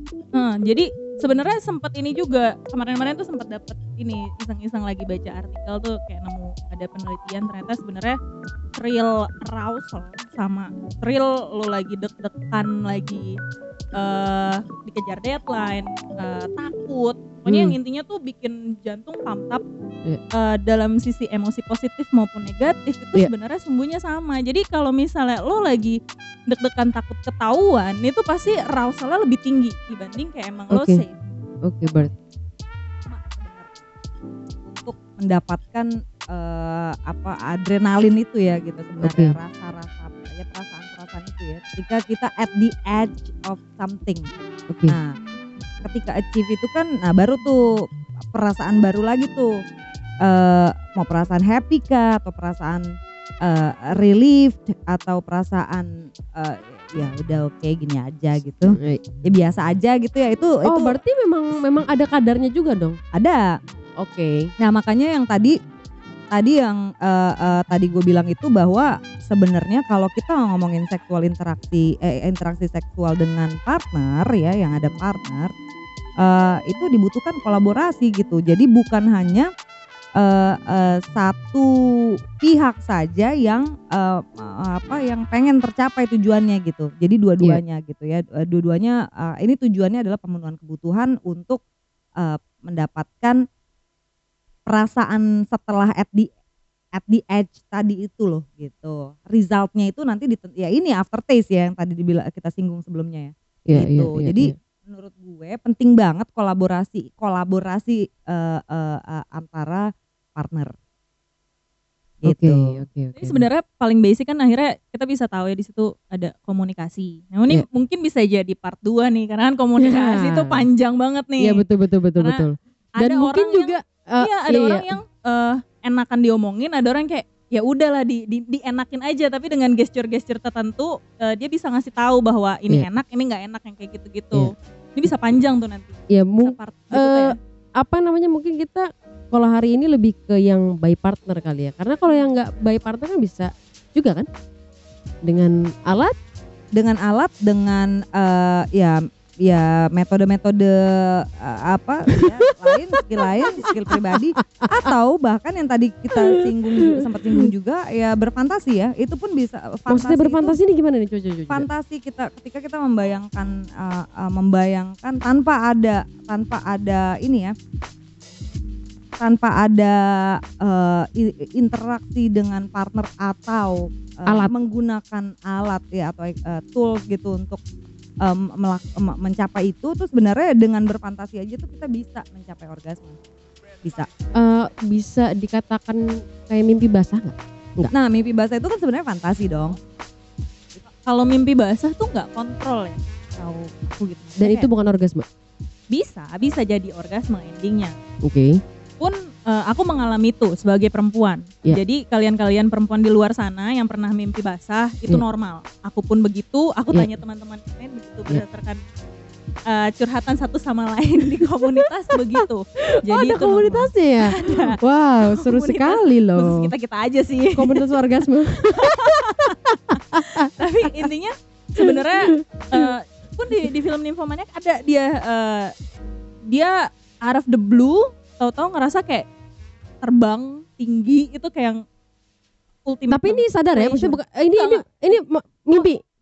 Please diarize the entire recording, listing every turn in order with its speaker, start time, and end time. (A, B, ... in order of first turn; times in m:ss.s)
0:00.3-0:08.2 A
0:08.8-0:13.4 A
0:13.9-0:19.6 A
0:17.5-0:17.8 B
0:20.3-0:31.1 A
0:30.7-0:31.0 B
0:31.6-0:32.1 B
0:33.0-0:33.8 C
0:34.6-0:44.3 C
0:39.0-0:39.3 B
0:44.7-0:45.0 B
0:44.9-0:45.2 C
0:45.8-0:49.5 C
0:50.2-0:52.9 C
0:53.4-1:01.0 C
0:58.7-0:59.0 B
1:00.6-1:03.0 B
1:03.1-1:03.5 C
1:04.0-1:04.5 B
1:04.6-1:05.6 C
1:06.3-1:15.5 C
1:16.2-1:19.5 C
1:20.2-1:21.7 C
1:22.3-1:31.6 C
1:32.2-1:33.4 C
1:34.7-1:36.3 C
1:36.9-1:50.7 C
1:43.7-1:44.5 B
1:52.2-1:52.8 C
1:52.2-1:53.4 B
1:53.2-2:01.6 A
1:59.8-2:00.7 B
2:01.4-2:05.0 B
2:02.2-2:02.4 A
2:03.0-2:17.4 A
2:16.1-2:24.3 B
2:25.2-2:26.1 B
2:26.7-2:40.6 C
2:32.1-2:34.9 B
2:36.2-2:37.5 B
2:39.9-2:41.7 B
2:41.5-2:47.5 C
2:49.2-2:57.6 C
2:54.3-2:54.5 B
2:58.2-3:03.2 C
3:03.8-3:04.1 C
3:04.4-3:07.9 B
3:07.9-3:09.8 C
3:11.0-3:14.7 A
3:14.4-3:15.2 B
3:15.9-3:17.9 A
3:18.2-3:18.6 B
3:19.0-3:28.8 A
3:29.7-3:38.0 A
3:31.2-3:36.7 B
3:37.5-3:41.1 B
3:38.6-3:45.7 A
3:41.8-3:42.9 B
3:46.5-3:49.2 A
3:50.0-3:51.8 A
3:52.8-3:54.8 A
3:53.1-3:56.0 B